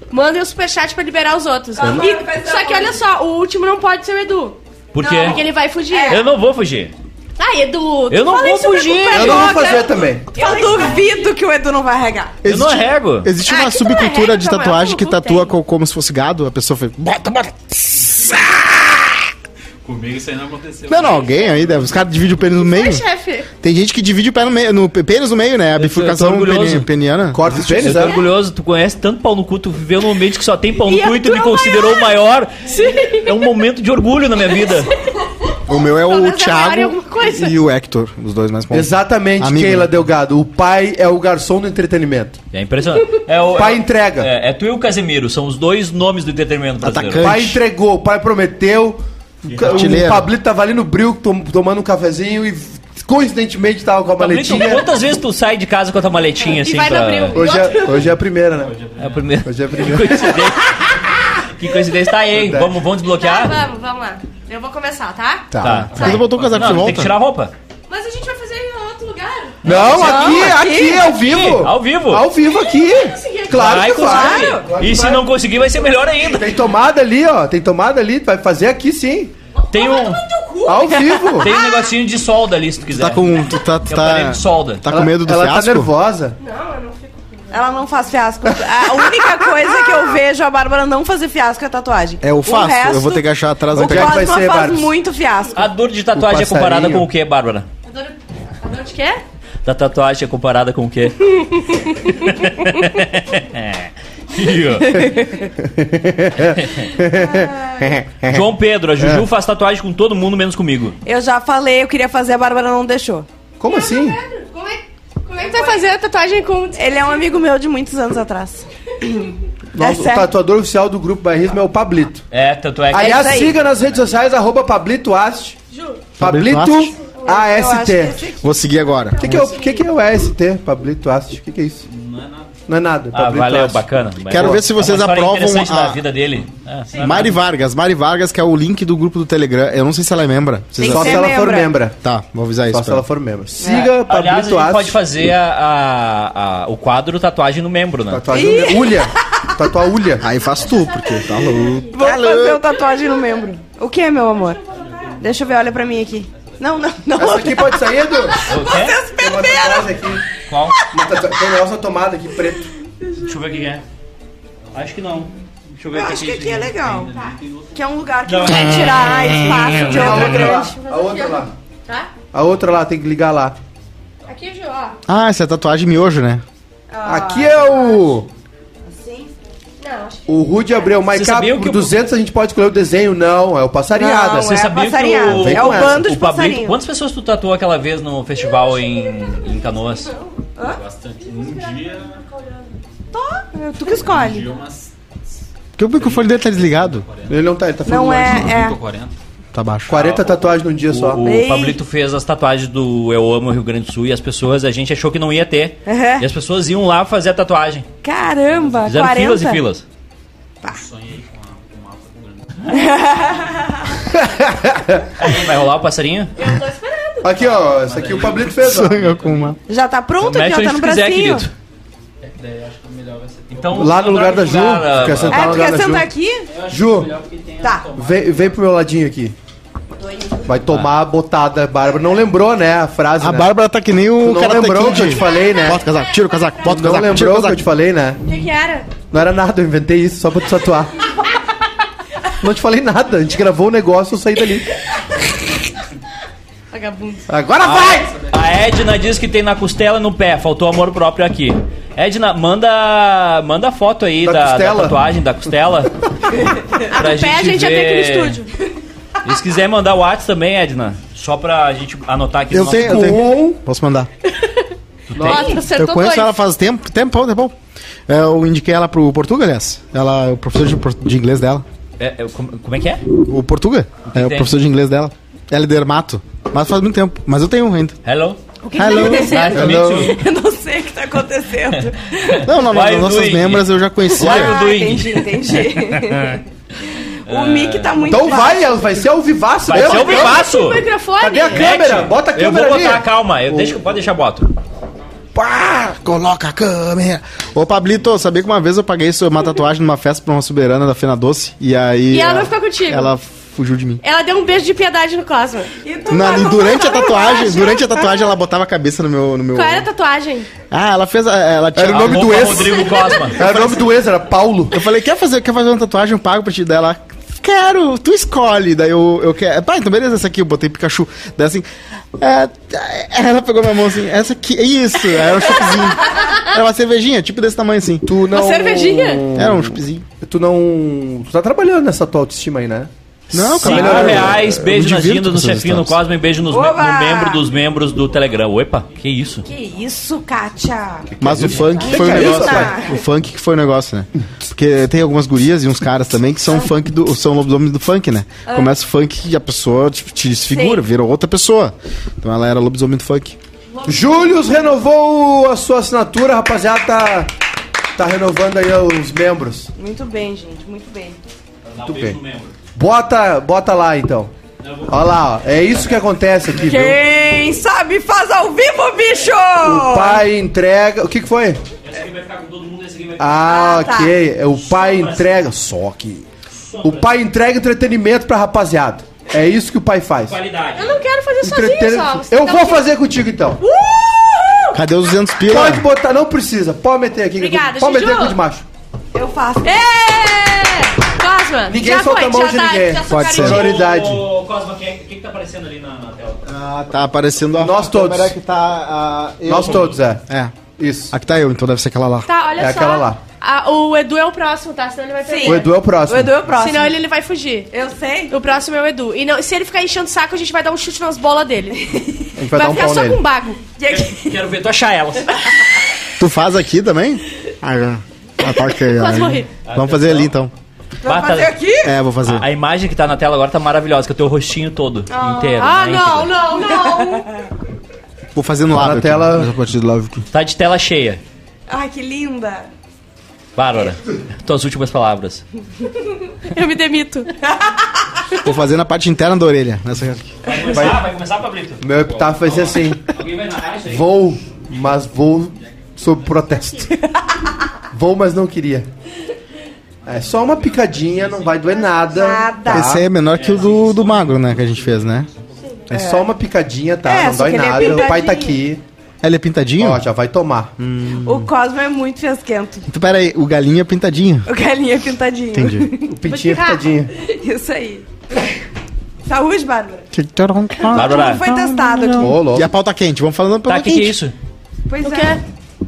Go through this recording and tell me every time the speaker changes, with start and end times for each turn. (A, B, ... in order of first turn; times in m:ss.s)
0:00.1-0:06.3 A
0:01.8-0:03.0 B
0:04.9-0:05.4 C
0:05.9-0:06.3 B
0:06.1-0:06.9 C
0:07.4-0:11.3 A
0:08.1-0:09.7 C
0:09.1-0:10.3 D
0:09.3-0:09.8 B
0:10.3-0:12.3 B
0:12.4-0:19.0 E
0:12.4-0:13.3 C
0:13.4-0:15.5 A
0:19.8-0:22.2 F
0:20.9-0:23.0 E
0:22.5-0:23.5 A
0:23.6-0:27.9 E
0:25.8-0:26.9 C
0:27.3-0:28.2 D
0:27.8-0:34.9 C
0:30.8-0:32.1 A
0:32.6-0:33.4 A
0:34.5-0:37.6 A
0:35.7-0:39.9 E
0:38.7-0:42.4 D
0:42.5-0:47.4 C
0:43.5-0:44.3 D
0:46.8-0:47.6 E
0:47.2-0:54.8 D
0:49.6-0:50.3 E
0:54.2-0:57.4 C
0:56.5-0:58.1 A
0:57.3-0:58.8 D
0:57.6-0:57.9 F
0:58.5-0:59.4 F
0:59.0-1:03.6 C
0:59.4-1:00.5 D
1:00.6-1:01.5 A
1:02.3-1:02.7 D
1:03.1-1:06.3 A
1:05.5-1:05.9 D
1:05.6-1:07.5 C
1:05.6-1:07.1 E
1:05.9-1:07.0 F
1:07.9-1:09.6 A
1:09.6-1:12.2 C
1:09.6-1:15.2 D
1:09.9-1:11.1 B
1:12.4-1:14.5 A
1:13.5-1:16.6 C
1:14.0-1:14.6 B
1:16.2-1:19.3 D
1:19.6-1:21.9 A
1:19.7-1:20.2 C
1:20.6-1:21.5 D
1:21.3-1:23.3 C
1:22.9-1:25.9 E
1:23.8-1:24.8 C
1:24.9-1:26.4 D
1:26.4-1:27.6 A
1:27.5-1:35.7 B
1:32.2-1:34.3 E
1:33.7-1:34.9 D
1:35.6-1:37.7 C
1:36.2-1:37.0 D
1:37.9-1:39.2 A
1:39.6-1:45.2 C
1:41.4-1:42.2 A
1:44.9-1:45.4 B
1:45.6-1:48.4 D
1:46.6-1:46.9 C
1:47.1-1:47.9 B
1:48.2-1:51.0 C
1:49.0-1:49.2 D
1:51.0-1:53.3 B
1:53.6-1:54.2 D
1:53.6-1:57.2 A
1:55.4-1:55.8 B
1:56.8-2:00.3 B
1:59.7-2:02.2 D
2:02.3-2:03.5 C
2:02.9-2:05.6 D
2:02.9-2:03.6 B
2:03.4-2:04.2 F
2:05.7-2:06.1 A
2:06.2-2:06.9 E
2:06.2-2:08.2 D
2:07.2-2:08.4 B
2:08.4-2:09.5 E
2:09.2-2:11.8 D
2:09.2-2:09.8 A
2:11.9-2:12.5 F
2:12.7-2:14.6 D
2:13.1-2:17.4 C
2:14.3-2:16.0 E
2:16.9-2:17.2 A
2:17.0-2:21.3 E
2:20.8-2:21.7 B
2:20.8-2:22.0 D
2:22.0-2:23.0 E
2:22.7-2:25.0 D
2:23.6-2:23.9 B
2:23.6-2:28.2 C
2:28.1-2:30.3 D
2:28.3-2:29.5 B
2:30.2-2:32.6 E
2:30.4-2:33.5 A
2:31.9-2:34.6 B
2:34.2-2:35.2 A
2:34.7-2:35.9 F
2:35.2-2:40.1 B
2:37.2-2:38.5 D
2:38.5-2:39.0 C
2:39.1-2:40.2 D
2:40.4-2:40.8 C
2:40.9-2:42.7 D
2:43.0-2:43.3 B
2:43.2-2:43.8 C
2:44.7-2:46.7 C
2:45.9-2:47.2 B
2:46.3-2:48.1 F
2:47.7-2:50.7 B
2:48.2-2:50.2 C
2:48.5-2:49.7 E
2:49.7-2:51.5 D
2:50.0-2:52.1 A
2:52.3-2:53.6 D
2:54.2-2:55.0 A
2:55.1-2:56.4 E
2:56.9-2:58.1 B
2:57.0-2:58.3 D
2:58.9-2:59.3 B
2:59.8-3:00.9 A
3:00.3-3:04.5 D
3:01.1-3:01.9 C
3:03.9-3:06.8 B
3:04.3-3:10.1 C
3:05.2-3:06.0 D
3:10.6-3:12.2 F
3:11.3-3:12.7 A
3:13.1-3:14.4 B
3:13.9-3:14.9 F
3:15.8-3:17.1 E
3:15.9-3:17.4 F
3:17.3-3:18.5 D
3:17.8-3:18.8 B
3:18.2-3:19.1 F
3:19.5-3:20.0 E
3:19.9-3:21.2 D
3:20.8-3:27.9 C
3:21.2-3:21.8 B
3:25.9-3:26.2 B
3:28.0-3:29.6 B
3:28.8-3:29.8 C
3:30.7-3:33.3 F
3:32.7-3:33.6 B
3:34.0-3:35.1 D
3:35.2-3:36.3 C
3:36.4-3:37.4 A
3:37.2-3:39.0 D
3:37.3-3:39.6 F
3:38.6-3:39.6 E
3:39.7-3:41.5 B
3:40.2-3:41.5 C
3:42.2-3:44.0 F
3:43.5-3:45.7 C
3:43.7-3:46.1 D
3:45.3-3:46.5 B
3:46.5-3:48.6 F
3:46.6-3:47.1 D
3:47.9-3:49.4 D
3:50.4-3:53.5 D
3:53.2-3:57.6 E
3:54.2-3:55.8 D
3:55.0-3:56.9 A
3:56.7-3:58.2 D
3:58.2-3:58.9 A
3:59.0-4:01.0 D
4:02.4-4:04.7 D
4:06.7-4:07.3 A
4:07.3-4:08.2 D
4:07.6-4:16.1 C
4:14.2-4:15.0 D
4:16.7-4:18.5 A
4:16.9-4:18.4 C
4:19.2-4:23.2 C
4:22.5-4:24.1 E
4:22.7-4:23.6 D
4:24.3-4:26.3 A
4:25.1-4:25.5 C
4:25.1-4:25.6 D
4:25.7-4:27.5 E
4:28.1-4:31.6 E
4:32.0-4:33.0 C
4:33.1-4:38.0 E
4:34.1-4:34.5 C
4:38.0-4:40.2 C
4:38.7-4:39.7 A
4:38.7-4:42.1 B
4:38.8-4:39.5 E
4:39.5-4:40.1 D
4:41.7-4:46.4 C
4:42.4-4:44.5 E
4:44.2-4:46.4 B
4:47.0-4:48.8 B
4:47.2-4:48.5 C
4:48.1-4:50.5 D
4:49.6-4:50.9 C
4:49.8-4:51.7 A
4:51.2-4:53.8 D
4:51.5-4:54.5 C
4:55.4-5:04.0 E
5:02.1-5:03.1 A
5:04.0-5:08.1 A
5:05.8-5:06.8 B
5:06.1-5:09.9 E
5:09.5-5:10.5 A
5:10.7-5:12.8 E
5:11.7-5:14.8 D
5:11.8-5:13.7 C
5:13.4-5:13.7 E
5:14.7-5:28.1 E
5:25.7-5:26.4 A
5:28.0-5:34.6 D
5:28.3-5:29.2 A
5:29.3-5:30.0 E
5:33.3-5:36.0 E
5:33.4-5:39.4 C
5:36.5-5:37.4 B
5:39.4-5:41.1 B
5:41.1-5:42.8 D
5:41.2-5:53.4 E
5:41.8-5:42.9 B
5:48.5-5:48.7 B
5:50.5-5:50.8 B
5:53.8-5:54.1 A
5:53.8-5:57.3 D
5:58.0-5:59.7 D
5:59.8-6:01.2 B
6:01.7-6:02.5 C
6:01.8-6:02.2 D
6:02.8-6:04.3 D
6:04.6-6:05.0 C
6:04.9-6:07.0 D
6:06.6-6:10.2 B
6:09.6-6:11.6 D
6:11.8-6:13.5 C
6:13.2-6:16.2 D
6:13.4-6:14.2 B
6:14.5-6:15.3 C
6:16.6-6:17.1 C
6:16.8-6:20.4 D
6:20.3-6:21.0 C
6:20.7-6:22.9 A
6:21.4-6:23.6 D
6:23.6-6:24.8 A
6:24.7-6:25.8 E
6:25.5-6:28.6 D
6:27.3-6:28.4 A
6:29.1-6:29.9 B
6:29.6-6:33.9 A
6:31.7-6:34.2 D
6:33.1-6:33.6 E
6:33.4-6:36.4 C
6:36.4-6:40.5 E
6:37.6-6:38.3 D
6:39.4-6:40.2 D
6:40.8-6:41.1 D
6:41.1-6:42.3 E
6:42.2-6:45.7 A
6:42.5-6:43.2 D
6:45.2-6:47.0 B
6:45.4-6:46.4 D
6:46.5-6:47.7 A
6:47.7-6:48.4 B
6:48.3-6:52.0 A
6:52.4-6:53.2 D
6:52.5-6:53.7 A
6:53.8-6:54.2 B
6:53.9-6:55.4 C
6:56.2-7:00.5 E
6:58.9-6:59.5 A
6:59.6-7:00.3 C
7:01.0-7:01.9 B
7:01.0-7:01.6 C
7:01.8-7:02.5 E
7:02.2-7:06.3 C
7:05.1-7:05.7 B
7:05.6-7:07.3 A
7:06.5-7:07.4 B
7:08.3-7:10.3 E
7:08.7-7:09.5 D
7:10.3-7:11.2 C
7:11.7-7:12.7 B
7:13.6-7:15.4 C
7:16.3-7:17.3 A
7:18.4-7:20.3 E
7:20.4-7:24.1 C
7:20.7-7:21.0 D
7:21.8-7:23.1 D
7:23.9-7:26.9 D
7:26.0-7:26.5 F
7:26.8-7:27.2 A
7:27.9-7:28.9 D
7:30.0-7:32.1 F
7:30.0-7:33.0 D
7:32.1-7:32.9 B
7:32.7-7:35.3 E
7:33.3-7:34.5 C
7:33.4-7:35.6 F
7:35.9-7:36.3 B
7:35.9-7:38.8 D
7:37.0-7:38.6 B
7:39.2-7:40.0 E
7:39.8-7:40.7 D
7:40.8-7:41.5 E
7:41.2-7:42.9 B
7:42.9-7:44.5 E
7:44.5-7:46.1 B
7:45.5-7:45.9 E
7:46.1-7:47.1 D
7:46.3-7:46.9 A
7:47.2-7:48.0 B
7:49.2-7:50.1 B
7:50.1-7:54.1 E
7:50.8-7:52.3 B
7:50.9-7:52.3 C
7:52.2-7:52.7 D
7:53.7-7:54.3 C
7:54.9-7:55.4 B
7:55.0-7:55.4 A